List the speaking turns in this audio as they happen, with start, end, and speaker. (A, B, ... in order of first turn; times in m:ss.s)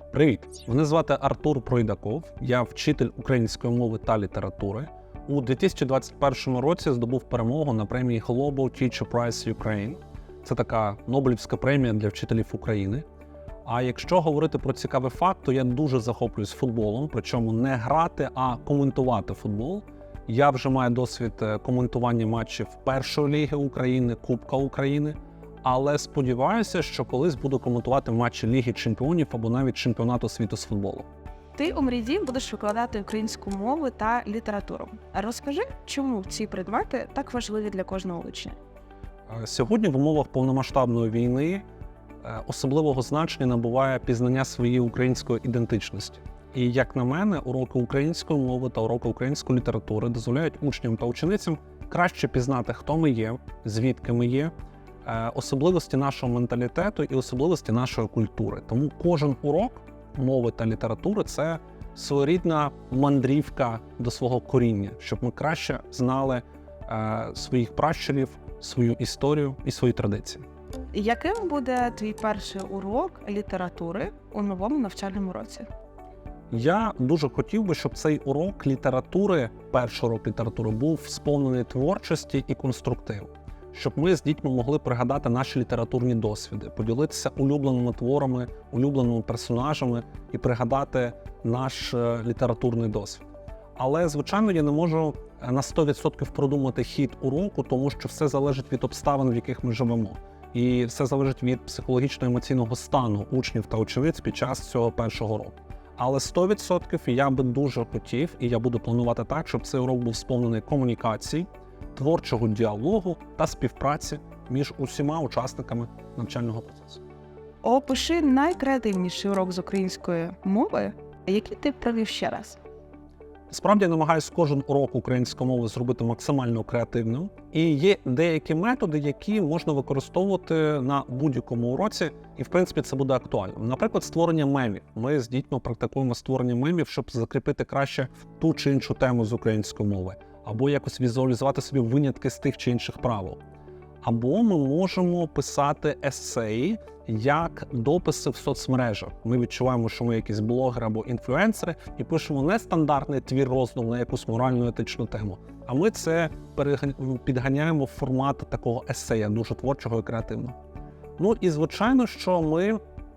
0:00.1-0:13.0 A
0:13.7-0:31.1 A
0:31.6-0:38.6 B
0:39.3-0:41.6 A
0:42.2-0:54.5 A
0:55.0-1:10.4 A
1:10.9-1:15.7 B
1:16.5-1:33.2 A
1:33.8-1:57.0 A
1:57.6-2:02.6 B
2:03.5-2:23.4 A
2:24.0-2:40.6 A
2:41.2-2:42.8 A